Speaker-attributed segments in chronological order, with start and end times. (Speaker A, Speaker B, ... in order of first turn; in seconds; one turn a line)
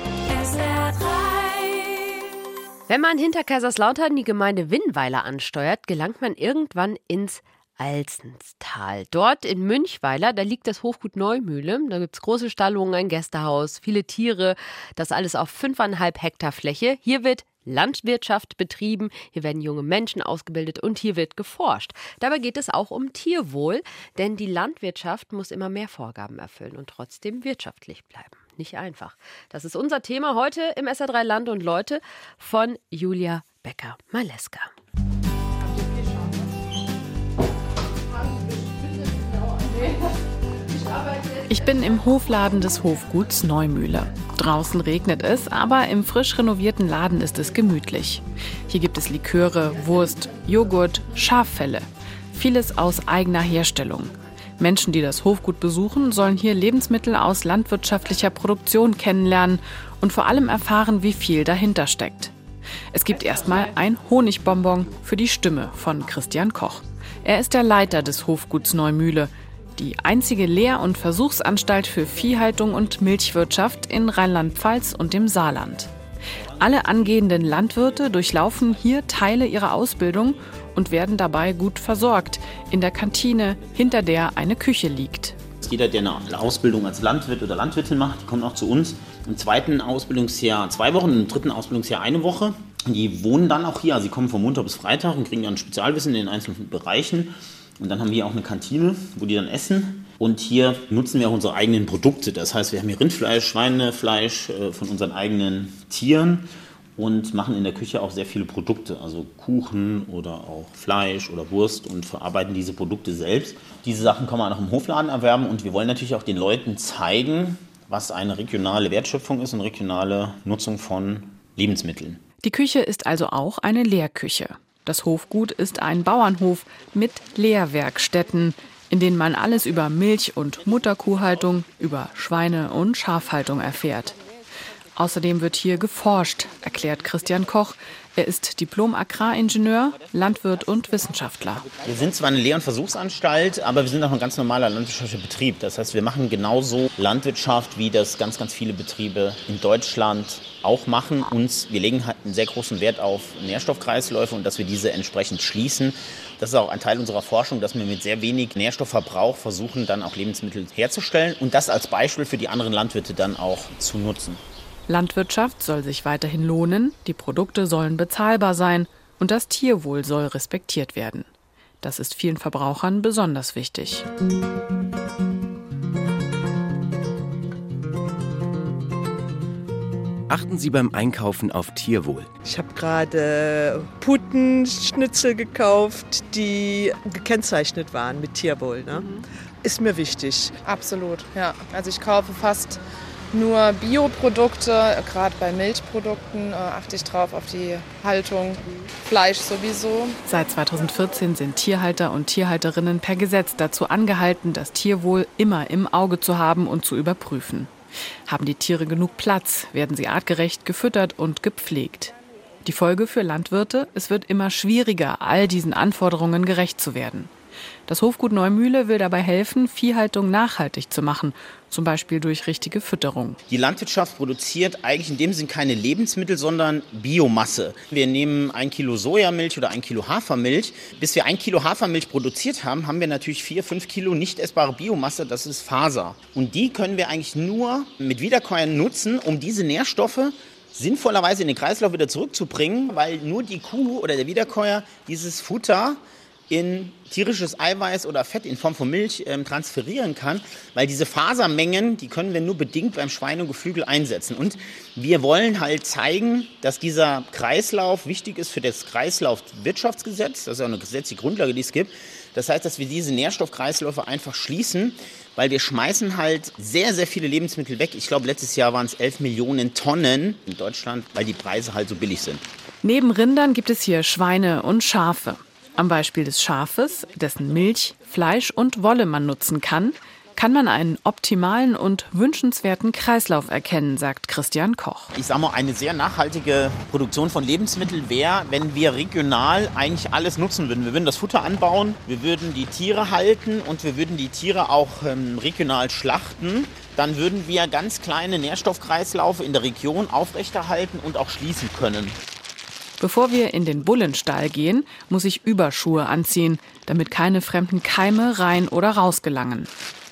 Speaker A: 0.3-1.6
Speaker A: 2.9-34.7
Speaker B: 35.7-36.3
Speaker C: 41.5-62.3
Speaker C: 62.9-75.9
Speaker C: 76.6-85.4
Speaker D: 85.6-122.2
Speaker C: 122.4-134.2
Speaker C: 135.0-141.7
Speaker D: 141.8-164.4
Speaker C: 164.9-171.3
Speaker C: 171.8-174.1
Speaker E: 180.3-182.3
Speaker F: 182.4-190.5
Speaker B: 190.7-192.8
Speaker B: 193.3-200.2
Speaker C: 200.2-207.7
Speaker C: 208.3-212.1
Speaker C: 212.7-217.3
Speaker C: 217.9-223.4
Speaker D: 223.5-272.4
Speaker C: 272.8-285.1
Speaker D: 285.1-302.2
Speaker C: 303.0-309.7